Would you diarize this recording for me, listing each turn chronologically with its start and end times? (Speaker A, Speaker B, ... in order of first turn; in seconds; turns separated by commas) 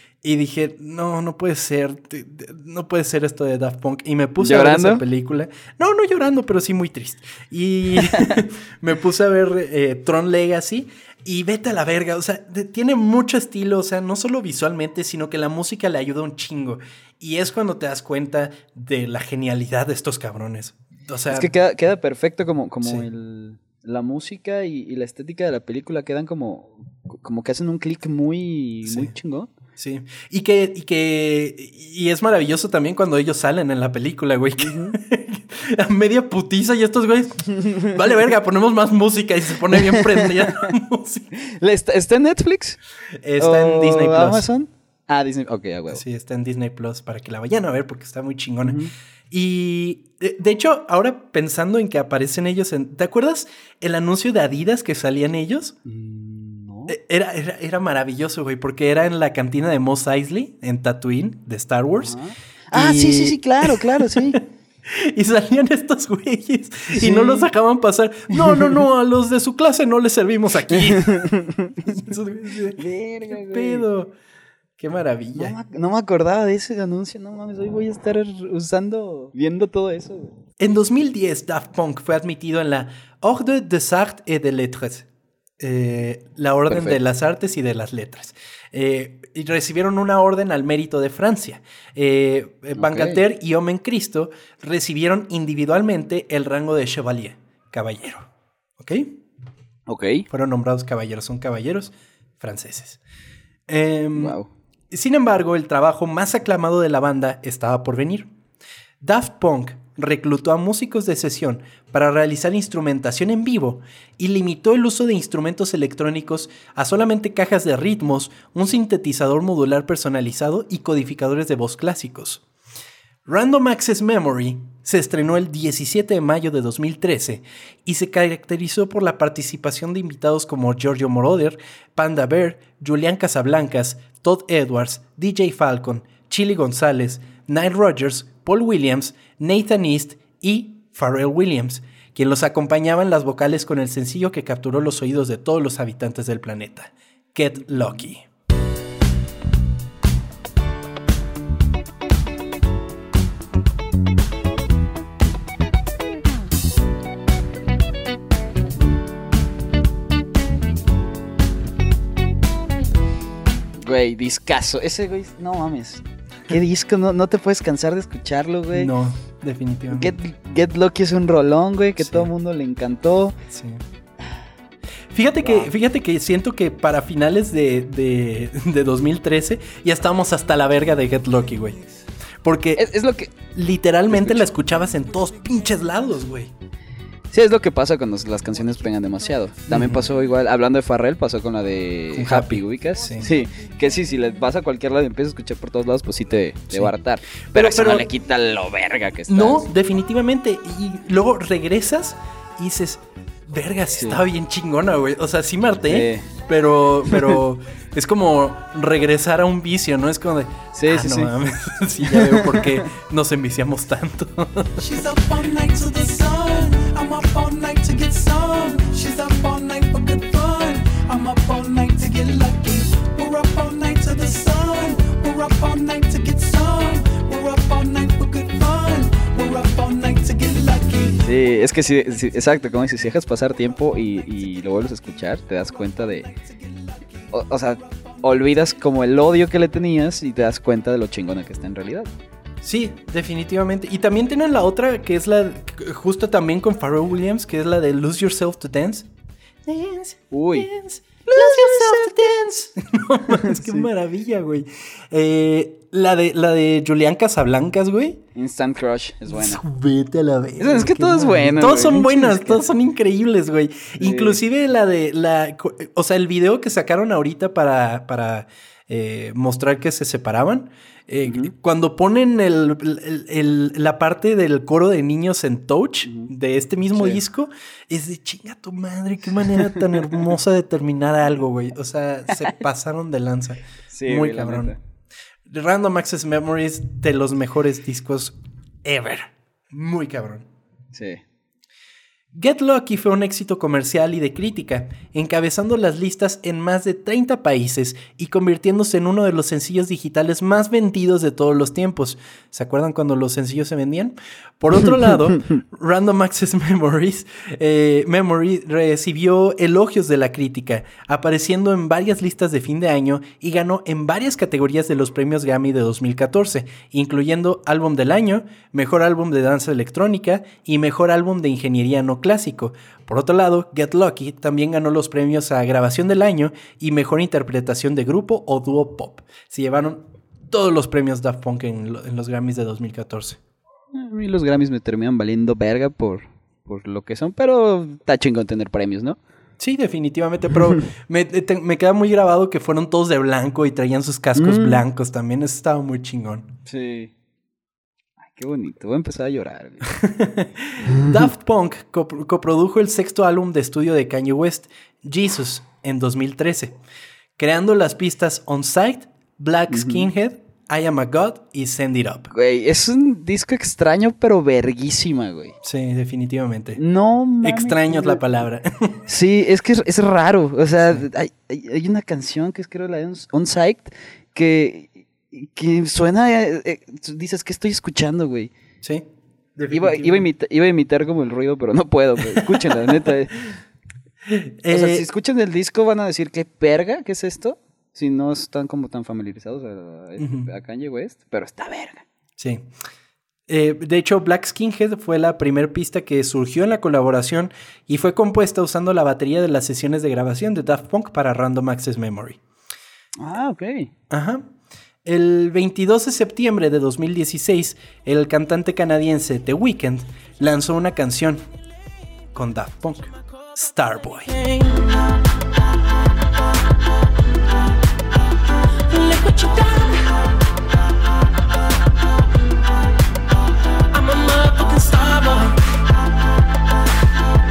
Speaker A: 0.2-21.5, Speaker B: 4.4-5.0, Speaker B: 8.0-8.3, Speaker B: 21.3-29.5, Speaker A: 28.9-29.1, Speaker A: 29.8-41.3, Speaker B: 34.6-35.0, Speaker B: 37.6-37.9, Speaker B: 39.7-40.7, Speaker B: 41.4-42.8, Speaker A: 43.2-44.5, Speaker B: 43.4-46.0, Speaker A: 45.9-55.8, Speaker B: 48.6-48.9, Speaker B: 55.9-57.0, Speaker A: 56.9-62.2, Speaker B: 62.0-64.4, Speaker A: 62.7-71.2, Speaker B: 66.9-67.5, Speaker B: 68.3-68.8, Speaker B: 70.8-72.0, Speaker A: 71.8-74.1, Speaker B: 72.8-73.9, Speaker A: 74.8-75.6, Speaker B: 75.4-80.4, Speaker A: 80.6-85.1, Speaker A: 85.6-99.2, Speaker B: 86.7-87.0, Speaker B: 92.8-93.2, Speaker B: 99.9-100.3, Speaker A: 100.3-103.0, Speaker A: 103.7-104.4, Speaker B: 104.2-104.5, Speaker A: 104.9-108.3, Speaker A: 109.0-122.4, Speaker A: 123.3-148.3, Speaker B: 163.8-168.9, Speaker A: 168.7-170.2, Speaker B: 169.9-173.4, Speaker A: 172.0-172.3, Speaker A: 173.5-173.8, Speaker A: 175.1-181.8, Speaker B: 175.4-175.7, Speaker A: 182.4-182.9, Speaker B: 182.8-183.3, Speaker A: 183.5-186.5, Speaker B: 184.1-184.5, Speaker B: 187.3-199.7, Speaker A: 189.7-190.1, Speaker A: 192.1-193.3, Speaker A: 197.5-198.1, Speaker A: 199.3-214.9, Speaker B: 203.9-204.2, Speaker B: 205.9-206.3, Speaker B: 207.1-207.4, Speaker B: 210.7-211.3, Speaker B: 212.1-212.9, Speaker C: 214.8-231.3, Speaker B: 231.2-236.3, Speaker B: 237.3-242.1, Speaker A: 242.6-249.1, Speaker A: 249.7-258.2, Speaker B: 250.3-250.7, Speaker B: 251.3-252.3, Speaker B: 253.3-253.9, Speaker B: 258.4-259.6, Speaker A: 259.3-284.8, Speaker B: 260.6-262.7, Speaker B: 264.0-264.4, Speaker B: 271.3-271.5, Speaker B: 276.1-276.3, Speaker B: 276.9-277.2, Speaker B: 283.9-284.8, Speaker A: 285.5-290.5, Speaker B: 290.9-291.2, Speaker A: 292.3-333.4, Speaker B: 333.9-339.2, Speaker A: 339.6-346.5, Speaker B: 344.4-344.8, Speaker B: 346.7-347.1, Speaker B: 348.2-349.9, Speaker A: 349.8-356.8, Speaker A: 357.4-362.3, Speaker B: 359.7-360.1, Speaker B: 362.3-365.6, Speaker A: 365.6-366.8, Speaker B: 366.8-368.2, Speaker A: 367.4-369.1, Speaker B: 369.1-378.5, Speaker A: 378.8-380.2, Speaker B: 379.7-383.5, Speaker A: 382.2-383.1, Speaker A: 384.2-385.1, Speaker B: 384.7-392.1, Speaker A: 390.2-390.5, Speaker A: 392.4-392.7, Speaker A: 393.5-402.4, Speaker B: 403.2-403.9, Speaker A: 404.1-404.5, Speaker A: 405.1-411.4, Speaker A: 412.3-414.8, Speaker C: 418.9-420.1, Speaker C: 423.9-425.6